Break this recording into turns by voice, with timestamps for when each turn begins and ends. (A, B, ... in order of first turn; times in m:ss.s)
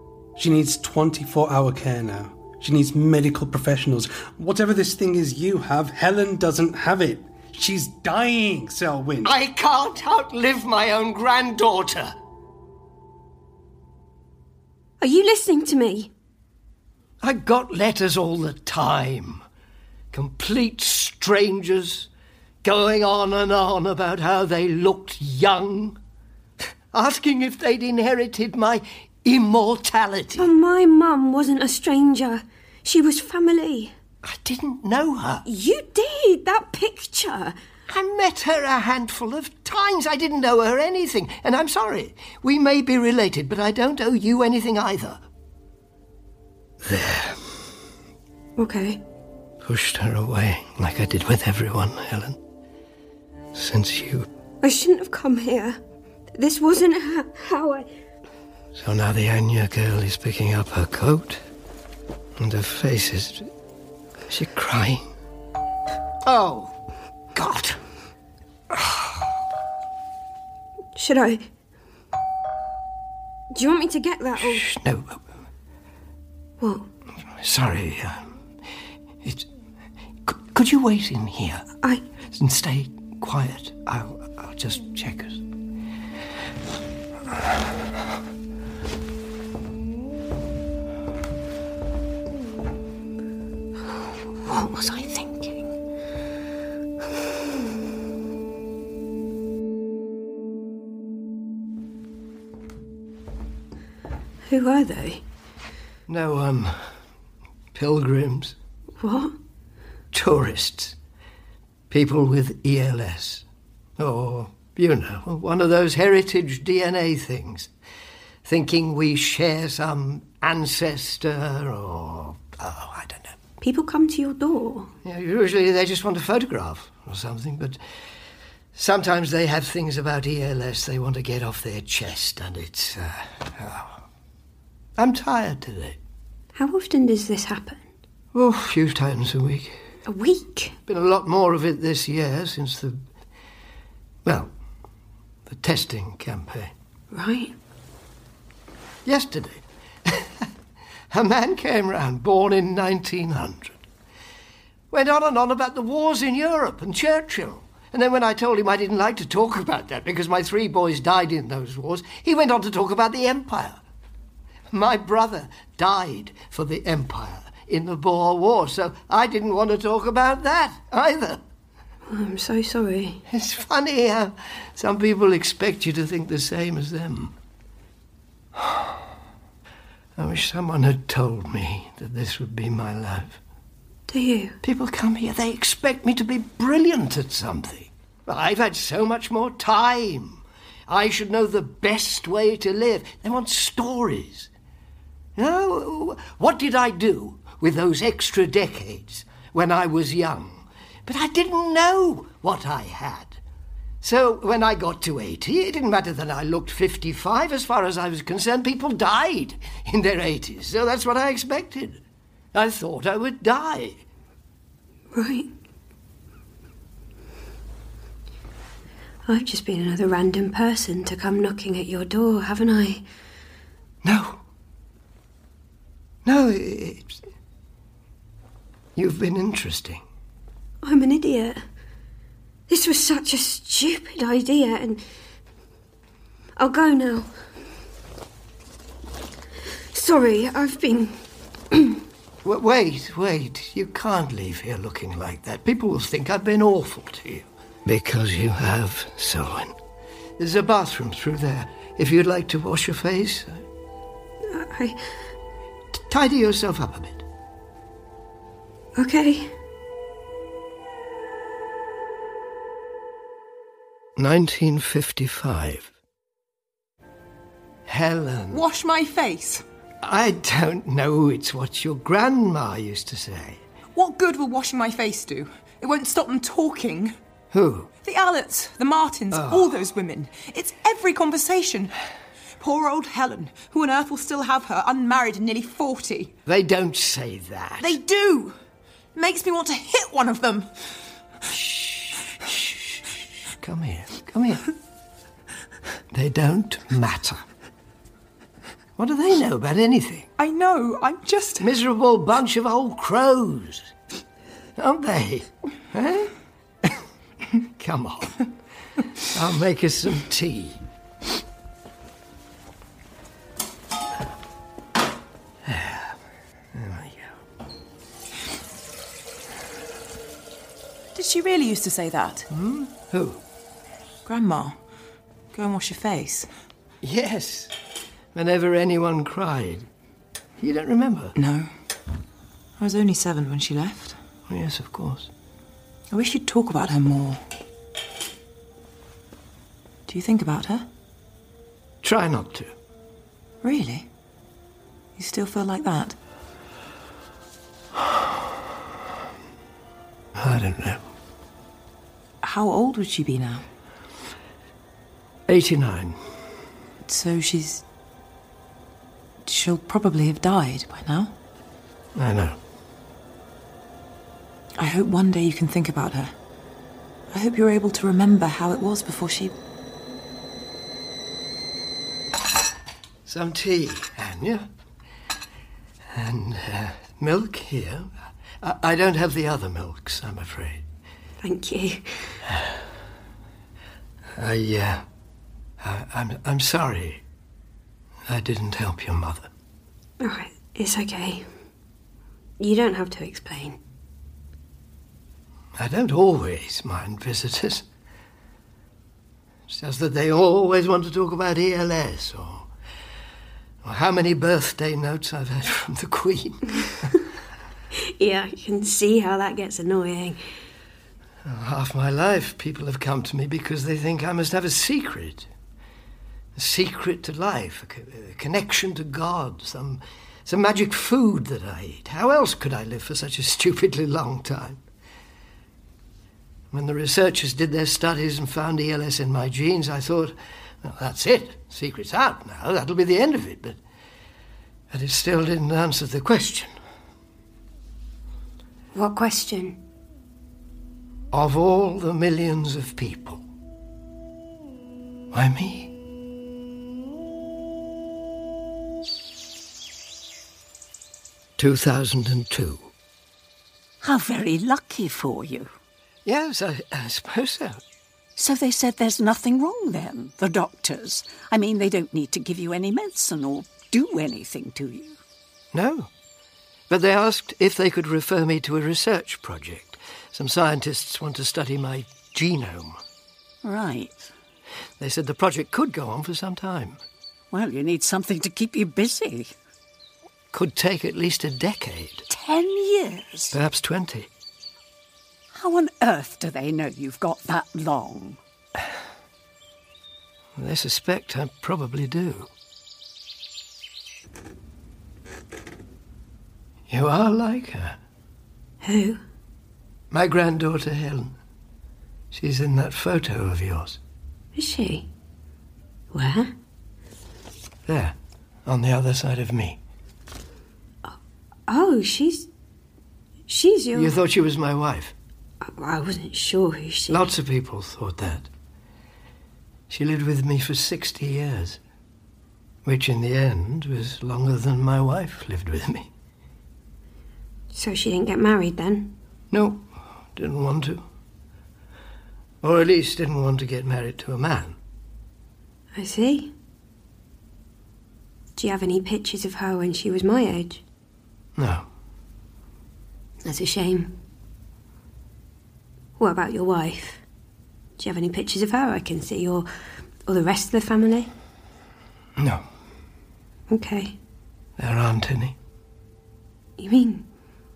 0:00.4-0:09.3 A
0:09.2-0:12.1 B
0:15.0-0:16.1 C
0:17.2-0:19.4 B
0:20.1-0:22.1 B
0:22.6-0:26.0 B
0:26.9-0:30.5 B
0:30.4-0:33.9 C
0:34.2-0:35.4 B
0:35.4-0:37.6 C
0:37.9-0:45.2 B
0:46.8-0:47.5 B
0:48.6-0:49.0 C
0:49.6-0:52.4 B
0:53.5-0:54.3 B
0:54.6-0:55.8 C
0:56.3-0:57.9 C
0:58.7-1:01.4 B
1:02.4-1:03.5 B
1:04.3-1:05.1 B
1:06.2-1:06.7 B
1:07.3-1:07.8 B
1:08.7-1:09.2 B
1:10.9-1:11.4 C
1:13.5-1:14.7 C
1:14.4-1:15.2 B
1:16.6-1:16.9 C
1:17.3-1:18.3 B
1:19.2-1:19.5 B
1:20.2-1:21.6 B
1:22.3-1:25.4 B
1:34.4-1:35.6 C
1:44.5-1:45.2 C
1:46.1-1:46.8 B
1:47.7-1:48.6 B
1:49.0-1:49.4 C
1:50.1-1:51.0 B
1:51.9-1:53.4 B
1:54.0-1:57.7 B
1:58.4-2:03.4 B
2:03.6-2:04.9 C
2:05.0-2:07.8 B
2:08.7-2:14.0 B
2:15.0-2:16.0 B
2:16.5-2:17.8 C
2:18.3-2:19.8 B
2:20.0-2:20.8 C
2:20.9-2:23.0 B
2:24.2-2:24.5 B
2:25.5-2:26.7 B
2:27.1-2:27.5 C
2:29.0-2:30.5 B
2:31.1-2:33.8 B
2:34.9-2:43.8 B
2:44.7-2:51.4 B
2:52.1-2:53.2 C
2:53.3-2:57.4 B
2:58.5-2:59.0 B
3:00.2-3:03.4 B
3:04.1-3:04.6 C
3:04.6-3:14.5 B
3:15.4-3:23.4 B
3:24.0-3:32.0 B
3:32.5-3:34.0 B
3:35.1-3:35.5 C
3:39.2-3:43.0 C
3:44.0-3:44.4 B
3:46.2-3:47.2 B
3:49.0-3:50.0 B
3:50.8-3:51.6 C
3:52.7-3:55.0 C
3:56.6-3:57.3 C
3:59.9-4:01.2 C
4:01.7-4:02.0 C
4:02.4-4:09.8 B
4:10.4-4:13.6 B
4:14.4-4:15.0 C
4:15.9-4:17.2 B
4:19.0-4:19.5 C
4:24.2-4:25.9 B
4:27.8-4:28.6 B
4:28.5-4:29.6 D
4:30.0-4:33.6 B
4:33.9-4:37.1 D
4:37.5-4:37.9 B
4:38.0-4:41.9 D
4:39.3-4:39.8 B
4:42.6-4:46.3 D
4:46.4-4:48.0 B
4:47.8-4:48.5 D
4:49.1-4:50.7 D
4:51.5-4:54.7 B
4:56.1-4:57.4 B
4:59.0-5:00.3 B
5:00.4-5:01.7 D
5:01.6-5:03.9 B
5:04.8-5:06.3 B
5:07.6-5:08.4 B
5:09.2-5:10.8 B
5:15.6-5:16.2 B
5:16.7-5:17.4 B
5:21.1-5:22.5 D
5:22.5-5:23.4 B
5:24.2-5:24.8 D
5:25.5-5:26.5 D
5:27.0-5:27.7 B
5:28.3-5:29.9 B
5:30.6-5:31.3 B
5:31.4-5:31.7 D
5:32.8-5:34.2 D
5:34.5-5:35.3 B
5:36.1-5:37.4 D
5:40.1-5:40.9 D
5:42.0-5:42.7 B
5:43.6-5:44.1 D
5:45.2-5:46.2 D
5:50.4-5:51.0 B
5:52.4-5:53.6 D
5:55.5-5:56.2 B
5:57.0-5:57.8 D
5:59.4-6:01.3 D
6:02.1-6:02.6 B
6:04.8-6:06.3 D
6:07.3-6:09.5 D
6:13.2-6:14.7 B
6:16.1-6:20.8 B
6:21.4-6:22.4 C
6:22.4-6:22.8 B
6:24.4-6:25.0 B
6:25.8-6:27.2 B
6:28.3-6:29.5 B
6:30.2-6:31.5 C
6:32.6-6:33.8 C
6:35.8-6:37.8 B
6:39.7-6:42.7 B
6:43.8-6:47.1 B
6:48.1-6:50.4 C
6:51.4-6:55.5 B
6:56.6-7:04.8 B
7:06.7-7:13.8 B
7:14.9-7:16.7 B
7:18.9-7:19.8 C
7:21.3-7:23.4 B
7:25.3-7:25.9 B
7:31.6-7:32.9 B
7:34.0-7:35.7 E
7:36.2-7:37.8 B
7:38.4-7:45.2 E
7:45.7-7:46.1 B
7:46.9-7:53.0 B
7:53.6-7:54.3 E
7:55.0-7:57.0 B
7:57.5-7:59.5 E
8:00.5-8:02.2 B
8:02.3-8:03.5 E
8:03.5-8:04.3 B
8:05.5-8:08.4 E
8:10.6-8:12.5 B
8:16.9-8:18.0 B
8:18.8-8:19.2 C
8:20.1-8:21.4 B
8:22.3-8:24.0 B
8:24.5-8:25.1 C
8:26.1-8:26.5 C
8:27.8-8:29.8 B
8:31.0-8:32.5 C
8:33.5-8:34.1 C
8:33.9-8:35.1 B
8:35.6-8:37.2 C
8:37.1-8:38.5 B
8:39.9-8:41.8 B
8:42.8-8:46.1 B
8:47.7-8:49.2 C
8:49.5-8:51.0 B
8:52.6-8:54.8 B
8:55.9-8:56.5 C
8:58.6-9:00.8 C
9:01.6-9:01.9 B
9:03.4-9:04.2 C
9:06.2-9:07.2 C
9:08.0-9:09.7 C
9:10.2-9:11.3 C
9:12.4-9:12.6 B
9:13.7-9:14.2 C
9:14.8-9:15.6 B
9:16.8-9:17.3 C